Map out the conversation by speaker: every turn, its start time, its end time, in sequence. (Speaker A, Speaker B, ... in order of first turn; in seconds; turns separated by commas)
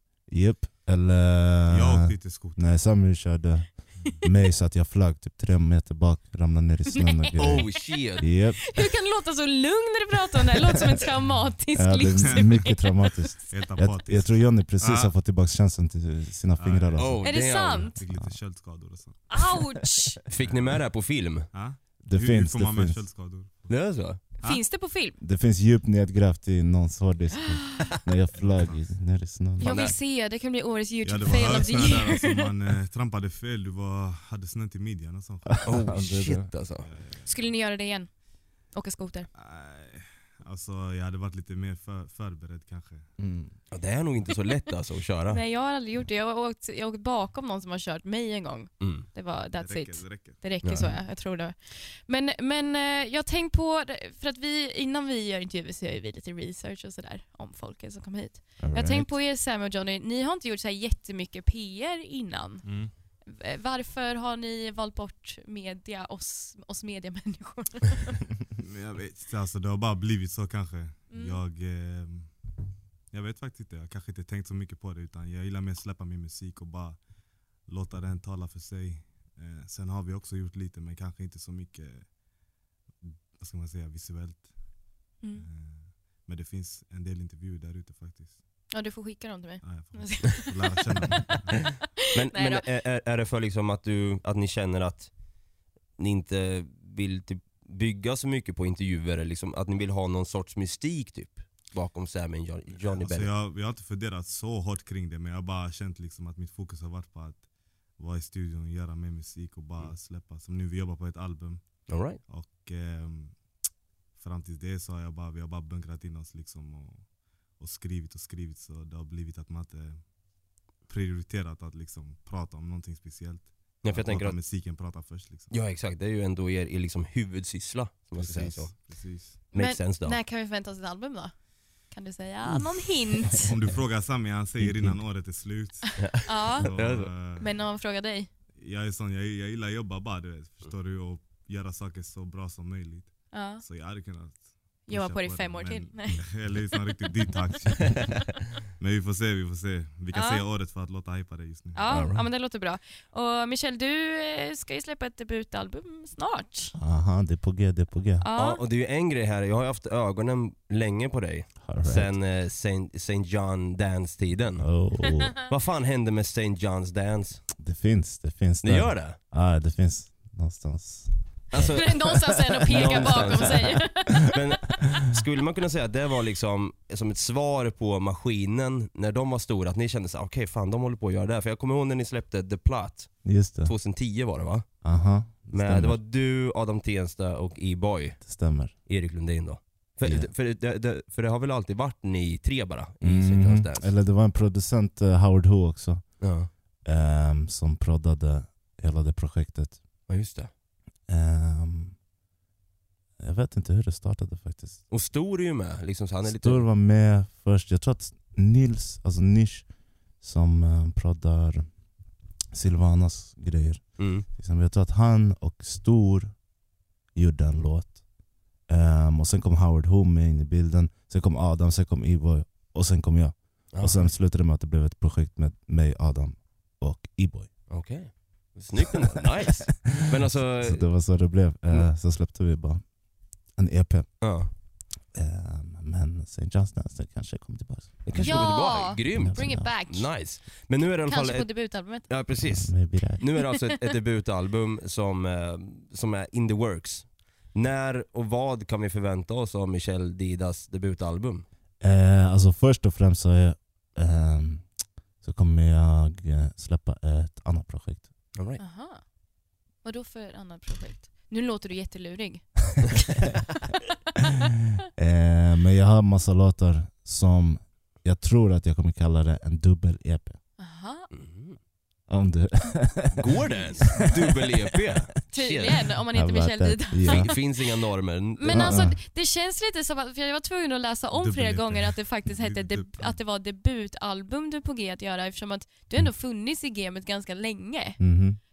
Speaker A: 0.3-8.8, Speaker B: 1.7-2.6, Speaker C: 6.9-7.8, Speaker D: 7.4-8.3, Speaker C: 8.7-13.3, Speaker A: 11.7-17.2, Speaker B: 12.1-12.6, Speaker B: 13.5-15.1, Speaker B: 16.6-19.3, Speaker D: 17.0-17.9, Speaker C: 17.2-18.0, Speaker C: 19.3-20.2, Speaker D: 20.3-21.5, Speaker B: 20.4-20.8, Speaker B: 21.5-23.7, Speaker A: 22.0-23.1, Speaker D: 23.7-24.2, Speaker C: 24.4-25.2, Speaker A: 25.2-29.9, Speaker B: 28.4-28.8, Speaker C: 29.6-32.5, Speaker D: 29.6-29.9, Speaker B: 31.0-35.6, Speaker D: 35.6-36.9, Speaker A: 35.7-36.5, Speaker B: 36.8-37.4, Speaker C: 37.3-38.1, Speaker C: 38.7-39.3, Speaker B: 39.3-43.1, Speaker A: 43.2-43.5, Speaker D: 43.7-45.4, Speaker C: 45.3-62.6, Speaker D: 48.8-49.1, Speaker B: 49.6-50.4, Speaker D: 50.6-51.0, Speaker A: 58.6-59.1, Speaker B: 62.6-62.9, Speaker C: 63.3-68.3, Speaker B: 68.6-72.3, Speaker C: 71.1-71.4, Speaker B: 73.1-77.0, Speaker B: 77.7-82.1, Speaker B: 83.0-84.5, Speaker B: 85.3-88.3, Speaker C: 88.7-91.2, Speaker B: 89.6-91.7, Speaker D: 92.1-95.1, Speaker C: 92.3-92.7, Speaker D: 96.0-103.3, Speaker B: 102.9-107.5, Speaker B: 108.0-113.4, Speaker D: 111.9-112.2, Speaker B: 114.2-120.0, Speaker B: 120.9-125.5, Speaker D: 123.8-124.4, Speaker D: 125.5-128.7, Speaker B: 128.2-129.4, Speaker D: 129.5-130.2, Speaker C: 129.5-131.3, Speaker C: 131.9-133.5, Speaker B: 133.4-137.5, Speaker D: 134.6-135.0, Speaker C: 135.9-136.7, Speaker D: 136.0-137.1, Speaker C: 137.4-138.3, Speaker B: 138.6-148.1, Speaker C: 143.3-143.6, Speaker C: 144.9-147.0, Speaker B: 148.8-151.9, Speaker C: 150.1-150.5, Speaker C: 151.7-156.8, Speaker D: 151.9-152.2, Speaker A: 156.8-158.3, Speaker C: 158.2-158.6, Speaker D: 158.4-164.7, Speaker A: 161.6-162.2, Speaker A: 164.6-165.4, Speaker D: 165.4-167.4, Speaker A: 167.6-171.6, Speaker D: 168.6-169.2, Speaker D: 171.5-172.0, Speaker C: 171.6-174.4, Speaker D: 172.6-183.1, Speaker A: 172.7-173.8, Speaker A: 183.2-183.7, Speaker D: 183.6-184.7, Speaker A: 184.8-186.0, Speaker D: 185.5-188.2, Speaker A: 188.2-188.7, Speaker D: 188.9-193.9, Speaker A: 190.0-190.3, Speaker A: 193.0-196.2, Speaker D: 196.2-196.5, Speaker A: 196.8-199.8, Speaker D: 200.1-200.5, Speaker A: 201.1-202.0, Speaker A: 203.2-204.8, Speaker D: 204.9-206.7, Speaker A: 206.2-209.7, Speaker A: 210.2-211.7, Speaker A: 212.5-216.4, Speaker D: 214.0-214.3, Speaker A: 217.2-218.0, Speaker A: 218.7-227.5, Speaker D: 223.7-224.1, Speaker D: 227.7-231.0, Speaker A: 230.1-232.9, Speaker A: 233.5-234.6, Speaker D: 234.2-234.5, Speaker A: 235.1-239.8, Speaker D: 238.1-251.5, Speaker C: 238.2-240.1, Speaker C: 241.1-242.1, Speaker A: 242.4-243.5, Speaker A: 251.8-258.1, Speaker D: 258.4-258.6, Speaker C: 258.6-259.1, Speaker C: 259.8-263.3, Speaker A: 265.0-270.4, Speaker C: 270.6-271.1, Speaker D: 271.1-271.6, Speaker A: 272.1-274.0, Speaker D: 273.2-275.8, Speaker C: 275.3-277.5, Speaker A: 276.1-277.4, Speaker D: 277.1-278.9, Speaker C: 278.4-288.0, Speaker A: 278.5-279.0, Speaker B: 281.1-283.2, Speaker A: 288.0-288.4